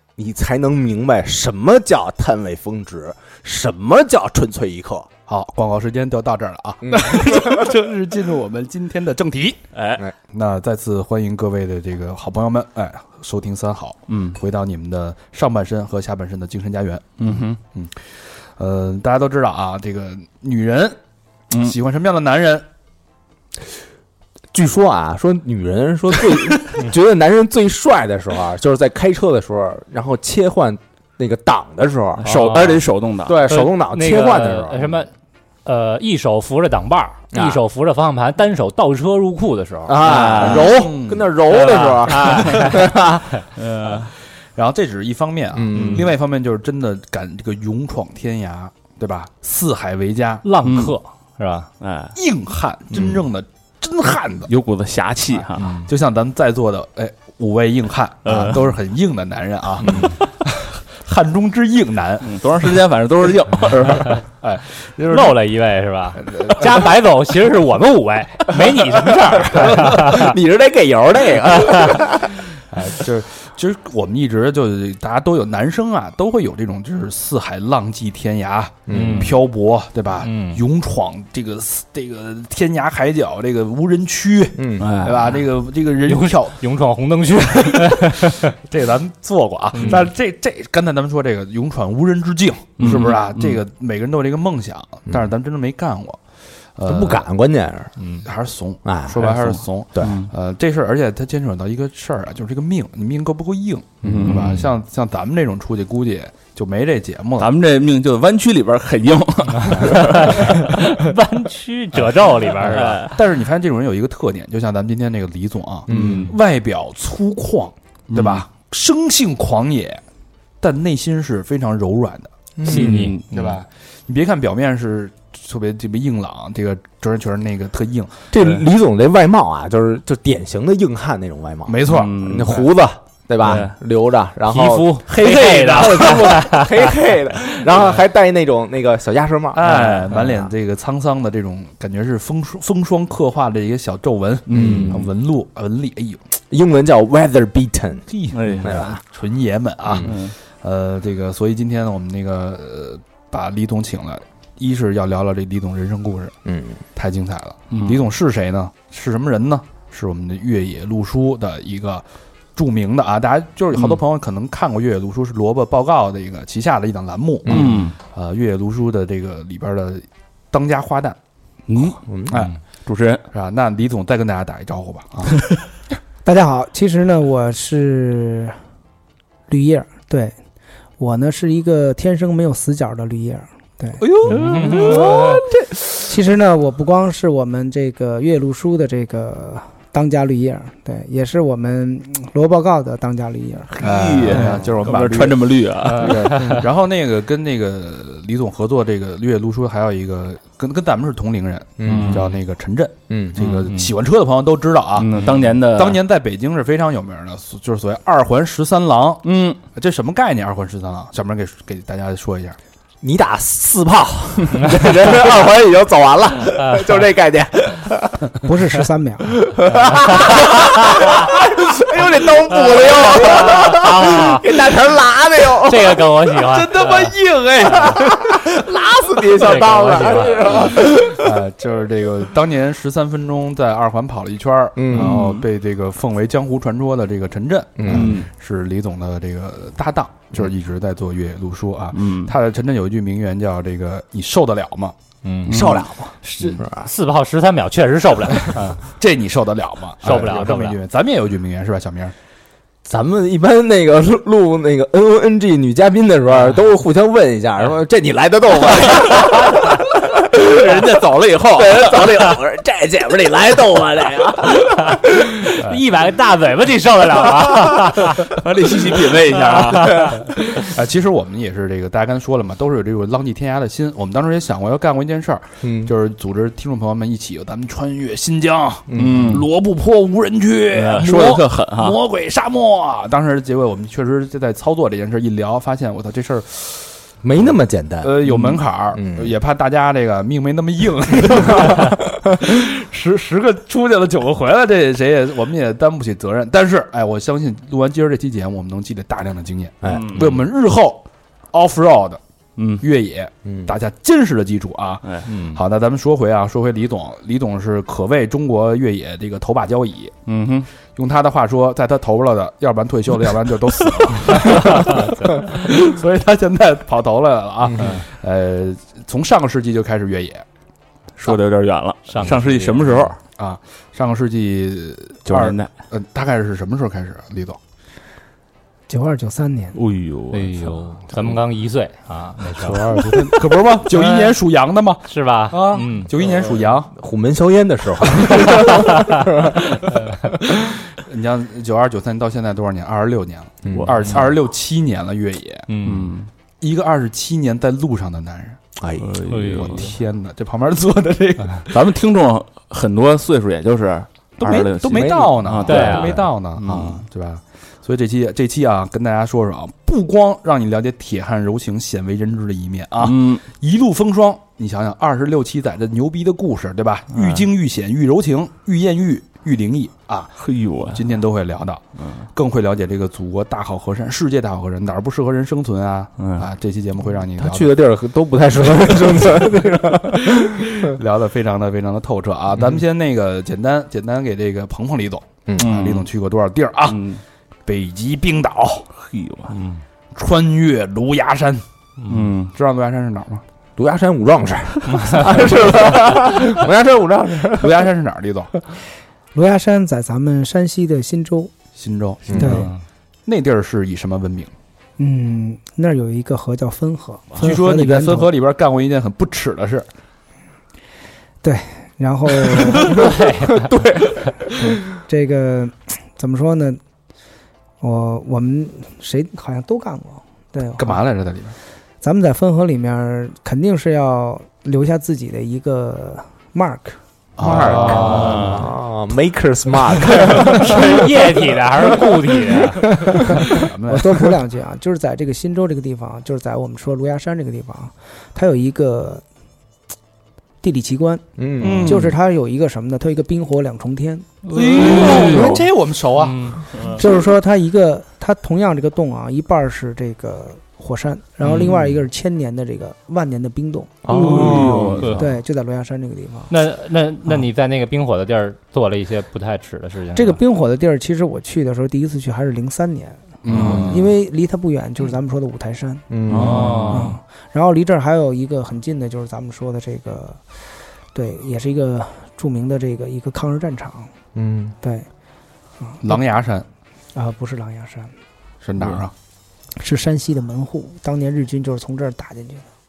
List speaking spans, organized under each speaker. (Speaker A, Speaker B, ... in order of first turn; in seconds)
Speaker A: 0.2-5.1, 6.8-7.7, 24.5-32.6, 33.2-35.0, 37.3-37.6, 39.9-43.3, 45.5-46.1, 55.6-55.8, 69.5-72.4, 78.9-79.3, 84.5-84.9, 96.8-97.9, 98.8-100.2, 104.0-104.5, 115.9-116.3, 122.6-123.1, 128.3-139.6, 144.5-145.0, 146.5-149.0, 149.8-150.1, 156.4-156.8, 167.4-167.8, 172.1-172.3, 201.8-202.3, 203.1-203.4, 213.0-218.3, 219.4-226.2, 227.6-231.3, 234.8-235.2, 237.8-238.2, 245.4-246.9, 252.8-260.9, 261.5-264.9, 275.6-275.9, 278.9-279.4, 287.2-289.3, 291.4-291.9, 299.8-300.1, 303.4-303.7, 332.7-333.3, 336.9-339.8, 343.6-344.2, 348.8-349.2, 354.9-355.5, 377.4-380.9, 393.8-397.9, 402.3-402.6, 412.9-414.5, 427.4-431.3, 431.8-432.3, 441.4-442.1, 451.5-451.9, 454.0-455.0, 466.1-466.8, 474.3-474.8
Speaker B: 5.3-9.6, 10.3-18.0, 18.6-21.0, 21.5-22.6, 40.4-41.3, 44.5-50.4, 52.1-54.5, 55.8-62.4, 64.1-65.4, 66.3-66.6, 69.6-69.9, 72.7-86.6, 87.7-96.2, 96.8-97.2, 98.2-107.5, 113.0-120.0, 120.6-122.3, 123.3-128.2, 131.7-132.7, 139.5-146.2, 148.2-156.3, 156.9-162.0, 162.6-171.2, 172.3-172.6, 173.3-175.5, 184.0-185.7, 193.8-212.6, 230.8-244.9, 249.0-252.1, 270.6-287.0, 288.0-302.2, 302.8-310.1, 310.9-320.4, 323.4-327.6, 332.7-336.9, 340.6-345.7, 346.6-348.6, 349.6-351.7, 354.4-370.4, 370.9-377.8, 379.1-379.4, 380.4-387.0, 387.6-388.9, 390.1-391.6, 392.5-393.4, 397.6-398.5, 401.8-402.3, 403.2-404.5, 407.4-409.9, 420.8-421.6, 427.4-428.6, 433.4-434.2, 441.6-442.1, 444.5-446.6, 454.1-455.1, 463.4-464.1, 466.3-466.9, 476.0-476.6, 478.6-479.1
Speaker C: 9.7-10.0, 14.1-14.4, 17.2-17.6, 32.2-33.4, 40.0-40.8, 42.1-42.5, 43.5-44.1, 45.7-46.0, 50.6-50.9, 51.8-52.1, 54.5-55.8, 58.2-58.7, 62.2-64.2, 84.8-85.2, 92.8-93.6, 100.0-100.3, 104.0-104.7, 107.4-110.7, 112.6-113.1, 115.9-116.3, 118.1-118.4, 122.7-123.3, 131.9-132.7, 133.4-133.8, 134.5-136.4, 139.6-140.2, 144.5-145.1, 148.3-148.8, 150.0-150.3, 157.7-158.0, 167.4-167.9, 171.7-172.3, 172.8-173.2, 184.3-185.1, 193.8-196.5, 201.8-202.3, 203.4-203.7, 204.9-206.0, 209.2-209.6, 234.9-235.4, 237.9-238.3, 241.9-242.3, 245.5-245.8, 260.2-262.1, 268.3-270.2, 278.9-279.4, 280.7-282.0, 299.9-300.4, 302.6-302.8, 310.3-310.7, 321.2-323.2, 325.2-325.7, 329.7-330.6, 343.8-344.3, 345.8-346.3, 349.0-349.9, 351.7-357.0, 363.0-363.4, 367.1-367.4, 370.4-371.0, 376.2-376.4, 385.6-386.1, 386.9-387.2, 389.0-389.5, 392.1-392.5, 427.5-428.6, 444.8-445.6, 454.1-455.2, 463.5-464.1, 466.3-467.1
Speaker D: 32.3-32.8, 33.5-35.1, 35.6-40.1, 41.5-42.8, 50.4-51.7, 65.0-70.3, 78.9-79.4, 80.2-80.6, 86.0-88.5, 109.8-113.1, 122.7-123.5, 135.0-136.9, 184.3-185.4, 195.9-196.6, 214.6-214.9, 219.7-221.3, 222.4-224.6, 225.6-228.0, 229.3-230.5, 245.2-245.7, 246.2-248.8, 250.0-250.8, 264.6-268.4, 305.3-305.6, 314.5-315.5, 322.1-322.5, 330.3-333.3, 333.9-334.4, 335.1-336.1, 339.9-340.3, 345.7-346.1, 349.3-349.8, 355.7-356.2, 389.5-389.8, 392.0-392.3, 394.9-395.4, 402.4-402.8, 412.9-413.8, 427.6-428.5, 430.4-433.0, 444.4-445.5, 446.2-446.6, 454.5-455.2, 456.5-460.4, 466.4-467.2
Speaker E: 176.2-178.6, 179.5-180.3, 181.0-184.1, 186.0-193.8, 218.4-219.3, 328.9-329.8, 399.3-401.5, 402.4-402.7, 405.0-408.3, 411.4-413.0, 414.6-416.8, 417.8-421.0, 422.0-427.0, 433.0-439.2, 440.6-444.3, 446.9-456.5, 460.1-466.0, 466.9-470.4, 471.1-474.1, 474.8-475.1, 475.8-476.1, 477.1-478.1, 479.8-482.7